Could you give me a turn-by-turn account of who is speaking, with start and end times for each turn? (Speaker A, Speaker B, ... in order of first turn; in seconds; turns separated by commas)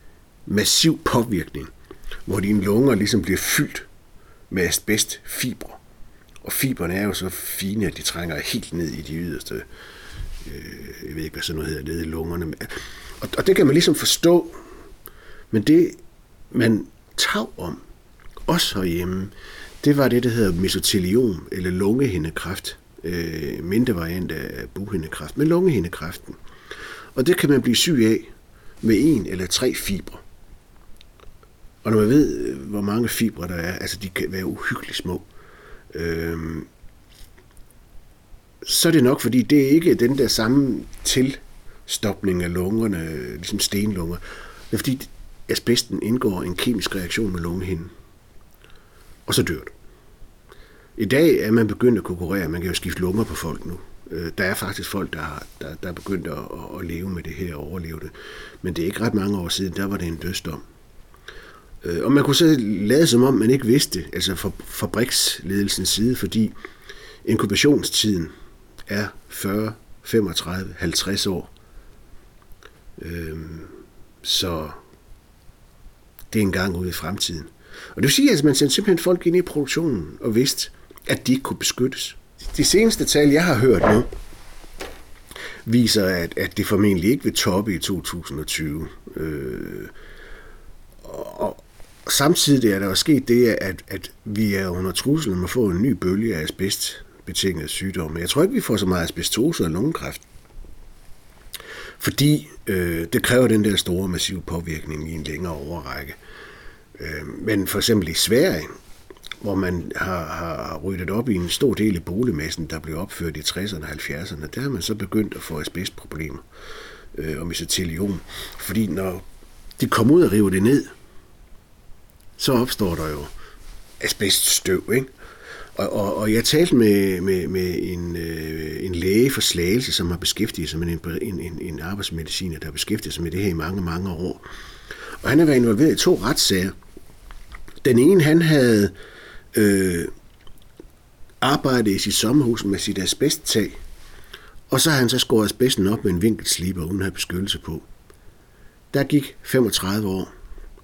Speaker A: 0.5-1.7, Speaker A: 2.2-3.9, Speaker A: 4.5-5.8, Speaker A: 6.4-9.7, Speaker A: 10.4-14.6, Speaker A: 15.5-16.0, Speaker A: 16.5-17.8, Speaker A: 18.4-26.4, Speaker A: 27.1-28.3, Speaker A: 28.8-30.2, Speaker A: 31.8-35.2, Speaker A: 35.9-36.7, Speaker A: 38.6-47.9, Speaker A: 49.2-49.7, Speaker A: 51.0-60.6, Speaker A: 61.8-66.5, Speaker A: 67.2-68.3, Speaker A: 68.9-71.5, Speaker A: 73.0-74.8, Speaker A: 76.3-84.1, Speaker A: 85.6-89.9, Speaker A: 91.0-100.2, Speaker A: 102.0-106.2, Speaker A: 107.0-108.7, Speaker A: 109.4-116.4, Speaker A: 117.1-119.2, Speaker A: 119.8-120.9, Speaker A: 122.4-123.3, Speaker A: 124.0-125.1, Speaker A: 125.8-134.4, Speaker A: 135.2-136.7, Speaker A: 137.8-138.9, Speaker A: 139.5-140.1, Speaker A: 141.4-143.8, Speaker A: 144.7-147.9, Speaker A: 148.9-150.3